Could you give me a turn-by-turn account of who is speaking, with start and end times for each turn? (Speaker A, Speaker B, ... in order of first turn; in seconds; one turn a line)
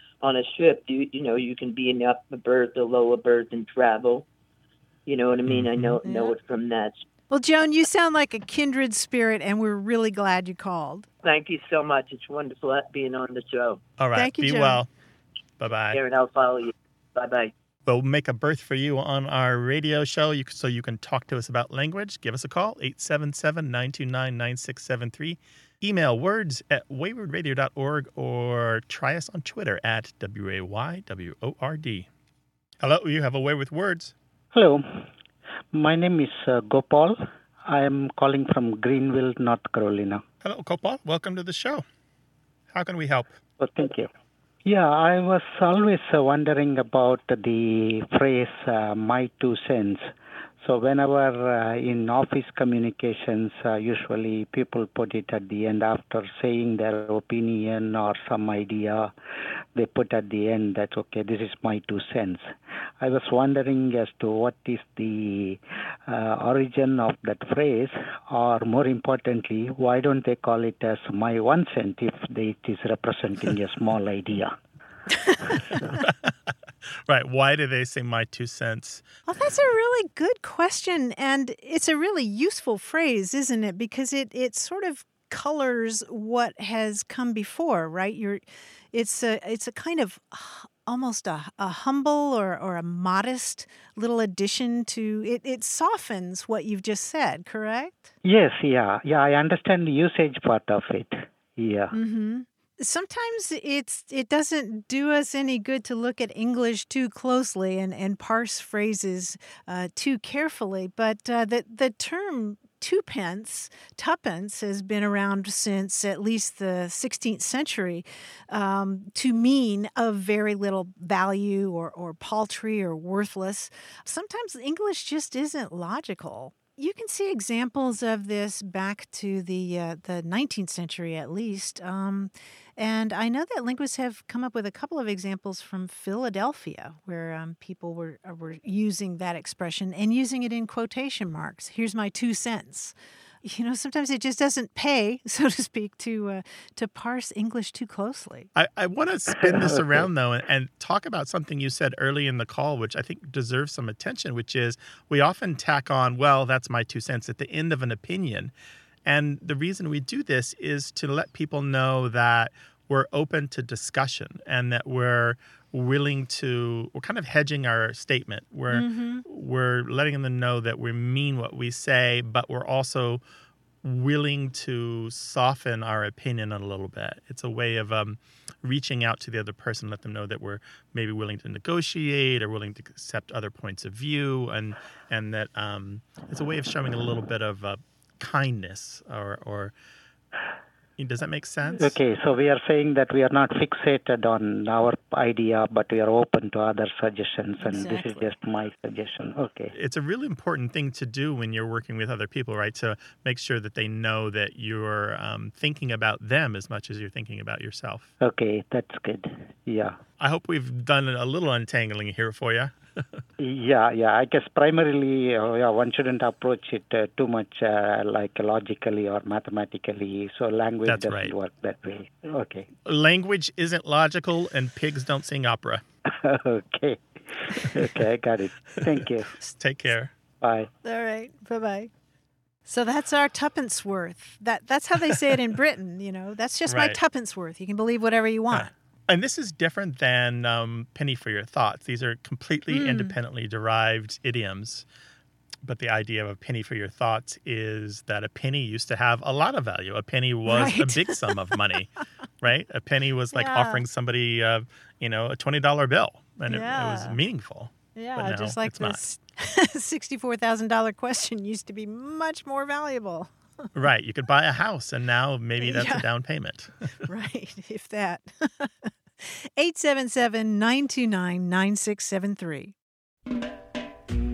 Speaker A: 0.2-4.2
Speaker A: 5.0-7.0
Speaker B: 5.5-6.0
Speaker C: 6.0-6.3
Speaker C: 7.3-11.1
Speaker A: 11.2-13.8
Speaker B: 14.0-14.9
Speaker C: 14.1-14.8
Speaker B: 15.6-16.0
Speaker A: 15.9-17.5
Speaker B: 17.9-32.1
Speaker B: 32.8-34.1
Speaker D: 34.5-34.8
Speaker D: 35.7-40.2
Speaker B: 40.4-41.8
Speaker B: 42.7-43.4
Speaker D: 43.6-44.1
Speaker D: 44.6-50.0
Speaker D: 50.6-59.1
Speaker D: 59.8-62.4
Speaker D: 63.0-74.5
Speaker C: 75.1-75.5
Speaker B: 76.0-76.3
Speaker B: 77.1-79.0
Speaker C: 79.3-98.1
Speaker D: 98.2-101.9
Speaker C: 101.9-148.5
Speaker B: 148.6-158.5
Speaker B: 159.1-173.2
Speaker C: 168.7-169.2
Speaker B: 173.8-189.7
Speaker B: 191.0-191.9
Speaker D: 191.8-199.7
Speaker C: 197.6-198.3
Speaker B: 199.7-208.1
Speaker D: 208.2-209.9
Speaker B: 210.2-212.7
Speaker D: 213.4-222.7
Speaker B: 220.8-221.3
Speaker B: 222.8-225.8
Speaker D: 226.1-229.3
Speaker B: 229.3-230.1
Speaker D: 230.4-230.7
Speaker C: 230.8-231.9
Speaker C: 232.7-238.7
Speaker B: 236.7-237.0
Speaker B: 238.5-244.8
Speaker C: 242.7-243.1
Speaker B: 245.6-259.0
Speaker C: 250.5-251.4
Speaker C: 253.3-253.8
Speaker C: 256.5-257.2
Speaker C: 257.9-263.3
Speaker B: 263.7-266.9
Speaker C: 265.6-266.1
Speaker C: 267.0-272.7